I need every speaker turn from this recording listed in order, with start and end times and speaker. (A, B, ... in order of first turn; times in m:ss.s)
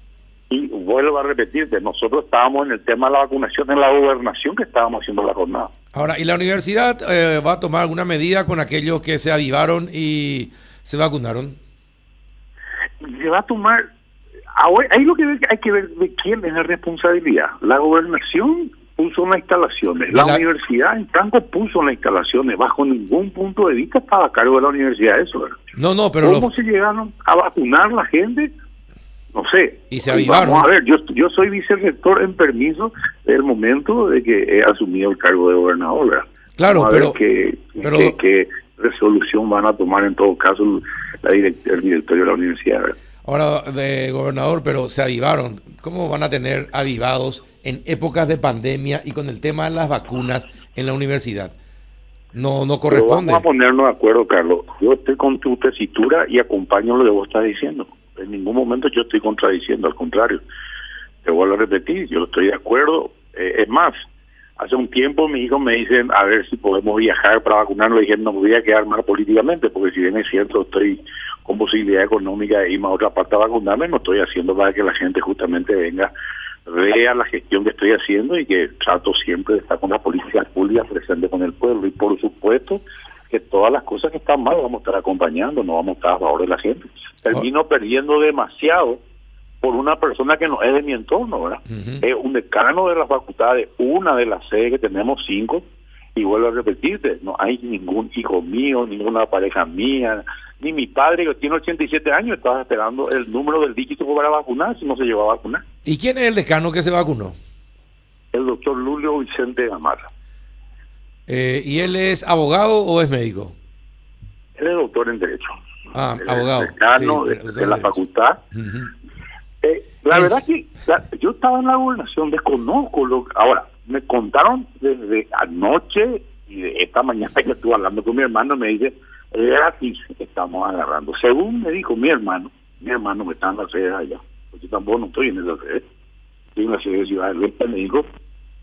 0:00.5-0:05.7 A
0:05.9-0:11.6 B
0:13.0-0:13.9 A
0:14.6-0:25.6 A
0:20.1-0:20.4 B
0:25.8-0:26.5 B
0:26.2-0:28.5 A
0:29.3-0:42.9 A
0:29.9-0:30.7 B
0:36.6-0:37.2 B
0:37.8-0:38.2 B
0:43.2-0:51.5 B
0:52.3-0:53.4 B
0:52.9-1:00.4 A
1:01.2-1:04.0 A
1:04.6-1:16.1 A
1:16.7-1:29.0 A
1:29.6-1:45.6 A
1:31.7-1:32.0 B
1:45.8-1:47.3 B
1:48.3-1:50.1 A
1:51.3-1:53.5 B
1:54.6-1:55.6 A
1:55.9-1:58.0 B
1:56.2-1:58.4 A
1:58.5-1:58.9 B
1:59.6-2:15.8 A
2:00.1-2:00.4 B
2:16.6-2:18.1 A